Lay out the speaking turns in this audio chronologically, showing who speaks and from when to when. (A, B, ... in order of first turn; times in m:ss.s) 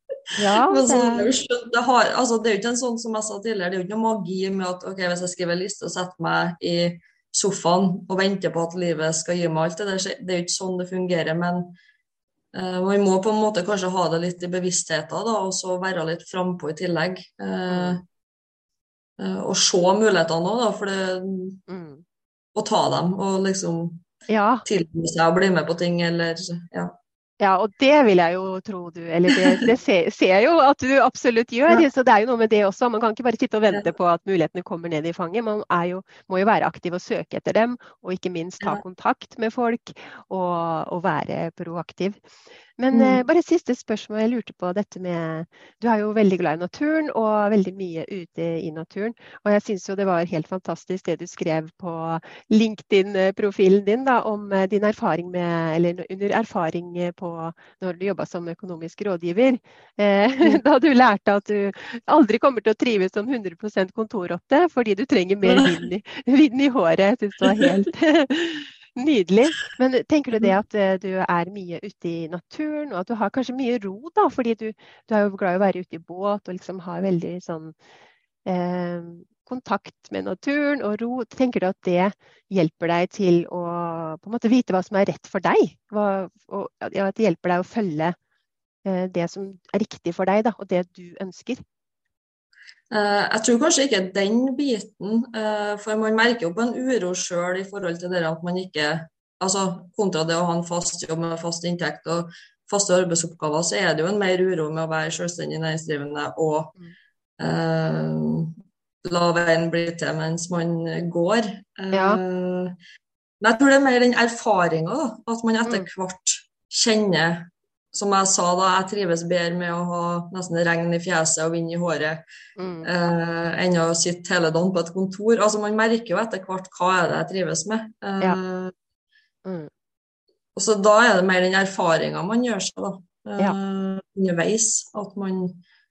0:00.4-0:01.3 A
0:00.6-0:11.8 B
0:12.5-0:18.0 B
0:17.7-0:18.0 A
0:19.2-0:21.6 B
0:21.7-0:22.0 A
0:22.5-0:24.0 B
0:24.3-0:24.6 A
0:24.6-0:26.9 B
0:27.4-0:42.2 A
0:42.8-1:17.8 A
0:42.9-0:43.2 B
1:05.4-1:05.8 B
1:07.4-1:07.7 B
1:18.4-1:28.2 A
1:28.8-1:31.6 A
1:32.9-1:46.7 B
1:47.4-1:48.5 B
1:49.0-1:52.8 B
1:51.9-1:52.2 A
1:53.4-2:02.2 B
1:55.6-1:55.9 A
2:02.6-2:02.9 A
2:02.8-2:08.7 B
2:10.5-2:15.6 B